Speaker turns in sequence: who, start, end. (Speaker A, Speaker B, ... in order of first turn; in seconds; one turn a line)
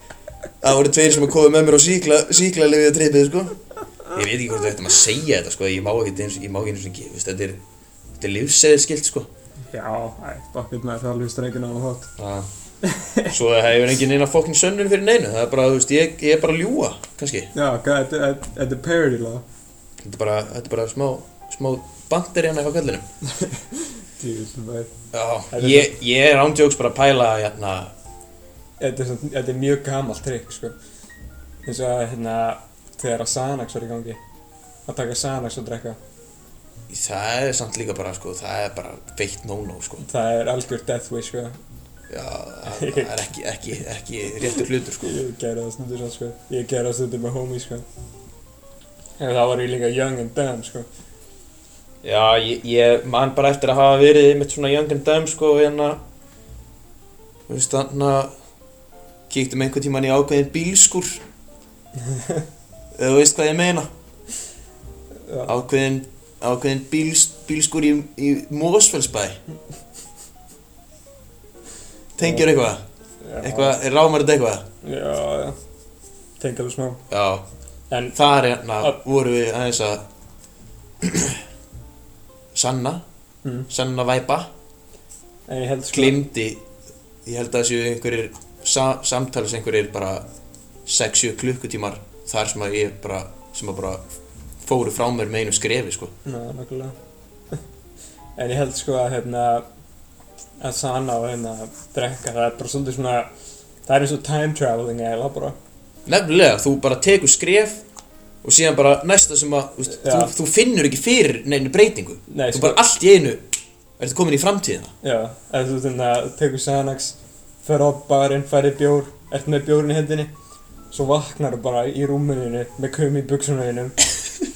Speaker A: 0.6-7.6
Speaker A: 8.2-9.3
Speaker B: 9.7-12.1
Speaker A: 12.2-12.5
Speaker B: 12.8-13.3
Speaker A: 13.3-17.5
Speaker B: 17.5-19.4
Speaker A: 20.0-23.1
Speaker B: 23.4-24.9
Speaker A: 25.1-27.9
Speaker B: 25.5-25.9
Speaker B: 28.8-30.8
Speaker B: 31.7-34.2
Speaker B: 34.9-36.0
Speaker A: 36.9-40.0
Speaker B: 40.0-41.6
Speaker A: 42.1-45.1
Speaker B: 42.7-43.2
Speaker B: 45.0-47.9
Speaker B: 49.2-50.9
Speaker A: 52.0-56.0
Speaker A: 57.5-58.3
Speaker A: 59.3-61.2
Speaker B: 62.0-62.4
Speaker A: 63.0-63.9
Speaker A: 65.5-69.4
Speaker A: 72.2-72.8
Speaker B: 73.2-73.8
Speaker A: 73.4-74.7
Speaker B: 74.8-75.6
Speaker B: 76.4-77.0
Speaker A: 77.1-77.5
Speaker B: 77.9-78.2
Speaker A: 78.1-80.0
Speaker A: 81.0-81.4
Speaker A: 82.5-83.0
Speaker A: 83.7-84.5
Speaker B: 85.5-86.2
Speaker A: 85.9-86.6
Speaker A: 87.2-90.3
Speaker A: 90.9-94.0
Speaker A: 94.6-96.1
Speaker B: 96.2-97.0
Speaker B: 98.4-99.7
Speaker B: 100.6-103.3
Speaker B: 103.9-105.6
Speaker A: 106.1-107.8
Speaker A: 108.4-113.4
Speaker B: 109.9-110.3
Speaker B: 112.3-112.8
Speaker A: 114.0-114.9
Speaker B: 115.0-120.3
Speaker B: 120.9-124.0